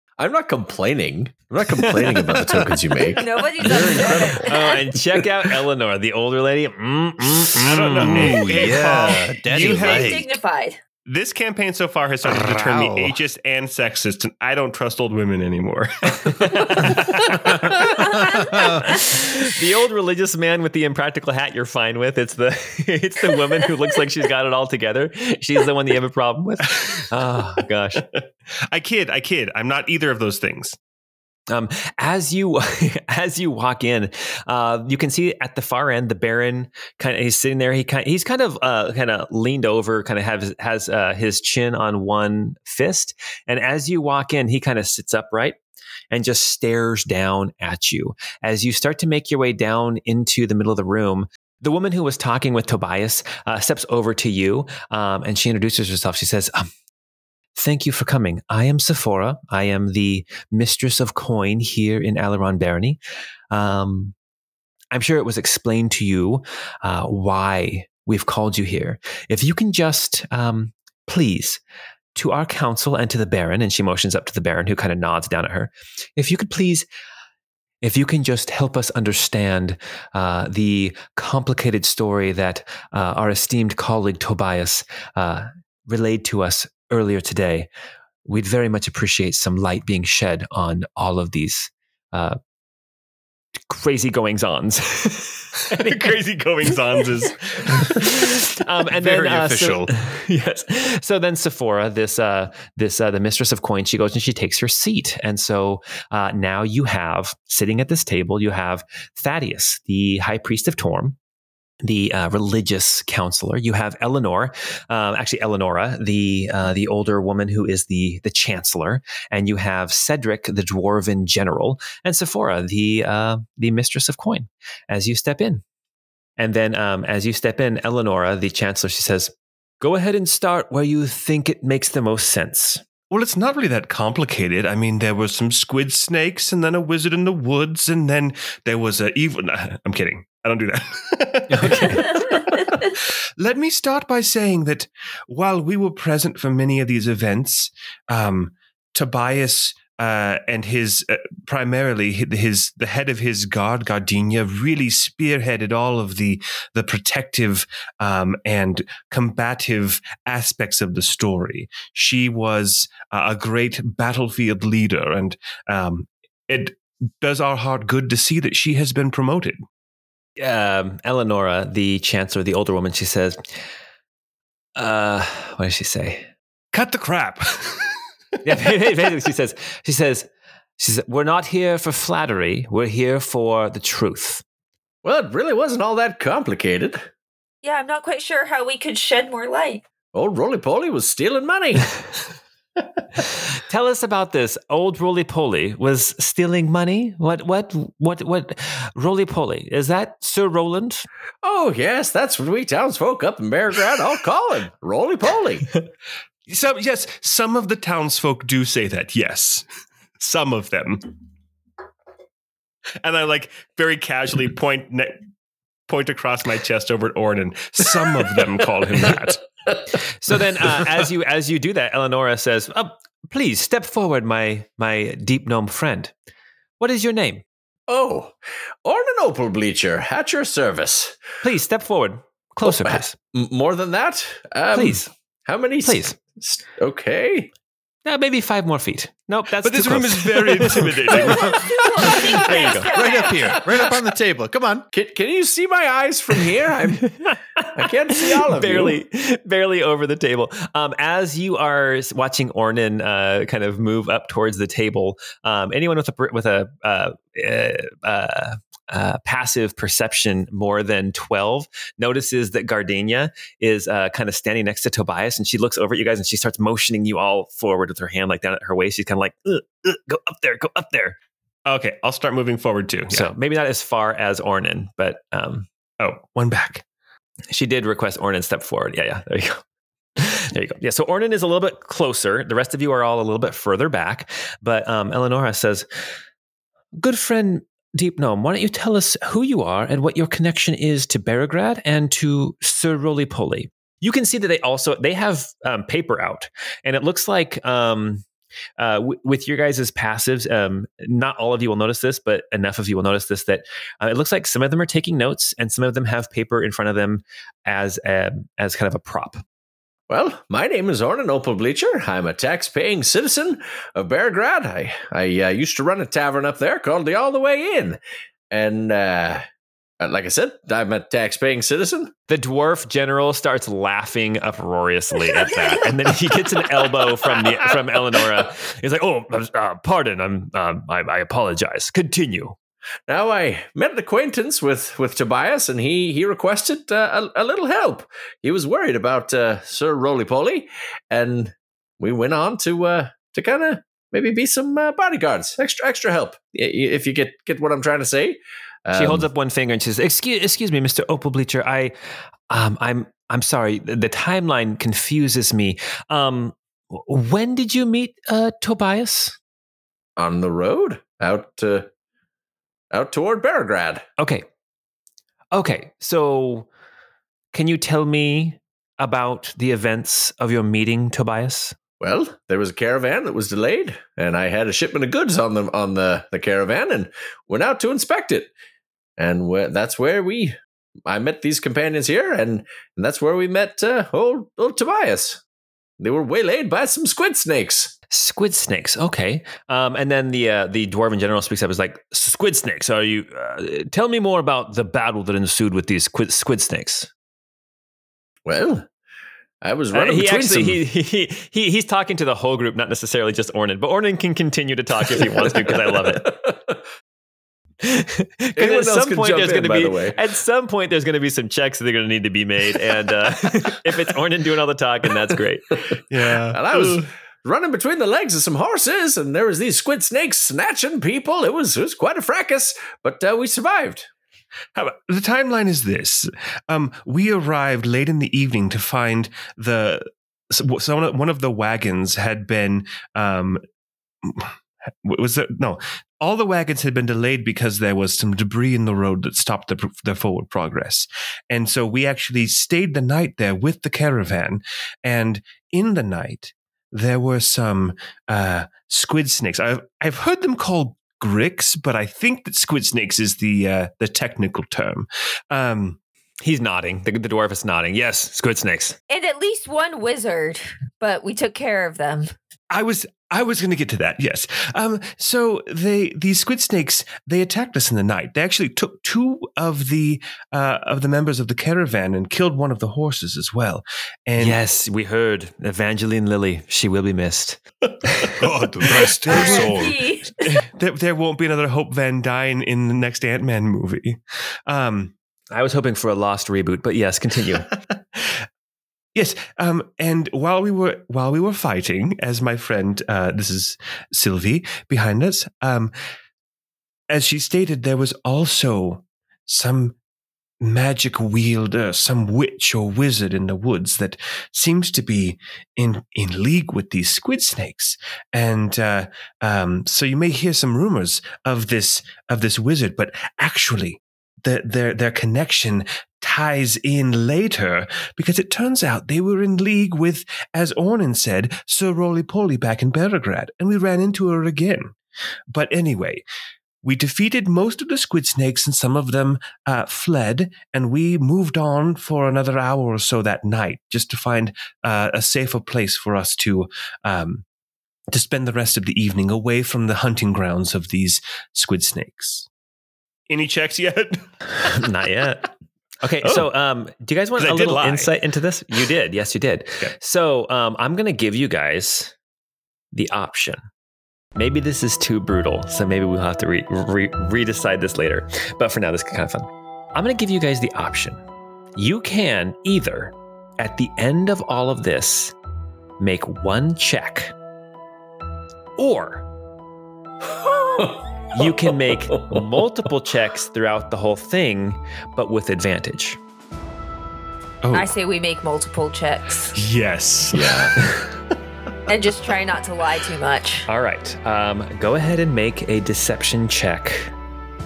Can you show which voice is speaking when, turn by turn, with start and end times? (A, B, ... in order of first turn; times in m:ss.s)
0:00.2-0:04.5 A
0:01.7-0:03.0 B
0:03.1-0:04.8 C
0:04.3-0:08.4 B
0:07.6-0:10.3 D
0:07.6-0:10.2 E
0:08.6-0:10.8 C
0:11.0-0:17.8 E
0:12.2-0:13.2 D
0:16.3-0:28.1 B
0:18.0-0:18.8 C
0:18.2-0:18.8 D
0:28.1-0:30.8 E
0:31.5-0:45.6 B
0:46.1-0:56.7 B
0:57.6-1:03.0 B
1:03.5-1:04.1 B
1:04.9-1:11.6 B
1:12.1-1:16.9 B
1:17.8-1:27.7 B
1:28.2-1:32.4 B
1:33.7-1:36.2 B
1:35.7-1:37.9 E
1:37.7-1:51.2 B
1:38.9-1:39.9 D
1:51.8-2:05.6 B
2:06.4-2:12.8 B
2:13.1-2:49.6 E
2:21.5-2:22.1 B
2:50.4-2:53.6 B
2:54.8-2:56.3 B
2:56.7-2:58.0 E
2:58.4-3:04.4 B
3:05.0-3:07.1 A
3:07.6-3:09.8 C
3:10.1-3:12.0 A
3:13.5-3:21.0 B
3:21.4-3:25.8 A
3:26.4-3:29.6 E
3:30.2-3:31.1 E
3:33.0-3:35.2 E
3:35.9-3:39.4 E
3:40.2-3:46.1 B
3:46.8-3:47.4 B
3:47.9-3:51.2 A
3:51.4-3:53.2 B
3:52.6-3:57.5 A
3:54.7-3:55.1 B
3:55.8-3:56.2 B
3:58.0-4:03.6 B
3:59.6-4:02.6 E
4:01.1-4:03.6 C
4:01.3-4:01.7 D
4:02.6-4:04.8 D
4:04.9-4:09.0 A
4:07.3-4:31.2 B
4:31.6-4:33.3 E
4:33.1-4:35.7 B
4:36.0-4:36.8 E
4:37.5-4:39.6 B
4:40.2-4:45.9 B
4:47.0-4:58.2 B
4:58.8-5:09.4 B
5:10.1-5:18.0 A
5:18.5-5:19.4 A
5:20.0-5:22.1 A
5:22.3-5:32.6 B
5:33.1-5:49.3 A
5:48.9-5:51.9 B
5:52.5-5:59.4 B
6:00.2-6:01.9 A
6:02.9-6:04.0 A
6:04.2-6:04.4 B
6:05.5-6:06.7 B
6:07.5-6:11.8 B
6:12.0-6:18.5 A
6:19.2-6:25.4 A
6:26.0-6:27.9 A
6:28.1-6:37.1 B
6:38.4-6:38.9 A
6:39.6-6:40.8 A
6:39.9-6:46.3 B
6:45.1-6:46.8 A
6:47.8-6:55.8 B
6:48.6-6:50.2 A
6:55.9-7:04.1 A
6:56.1-6:57.0 E
7:04.7-7:13.6 E
7:14.2-7:36.0 E
7:36.4-7:39.0 B
7:39.1-7:42.3 C
7:42.7-7:54.6 E
7:54.4-7:57.6 B
7:58.4-8:00.0 D
7:58.8-8:05.1 E
7:58.9-8:00.6 C
8:05.5-8:07.7 B
8:09.1-8:15.9 E
8:17.1-8:20.0 E
8:20.6-8:44.9 E
8:45.5-8:46.2 E
8:46.8-8:57.4 E
8:58.1-9:02.5 E
9:03.3-9:04.8 E
9:04.6-9:05.5 B
9:06.0-9:12.1 B
9:07.4-9:08.1 E
9:12.9-9:13.6 B
9:14.4-9:21.2 B
9:21.8-9:25.3 B
9:26.0-9:27.3 B
9:28.8-9:29.2 B
9:30.2-9:32.4 A
9:31.3-9:36.2 B
9:37.6-9:37.9 E
9:37.7-9:39.5 C
9:39.5-9:41.2 E
9:40.3-9:40.7 A
9:41.9-9:43.6 C
9:43.7-9:47.1 B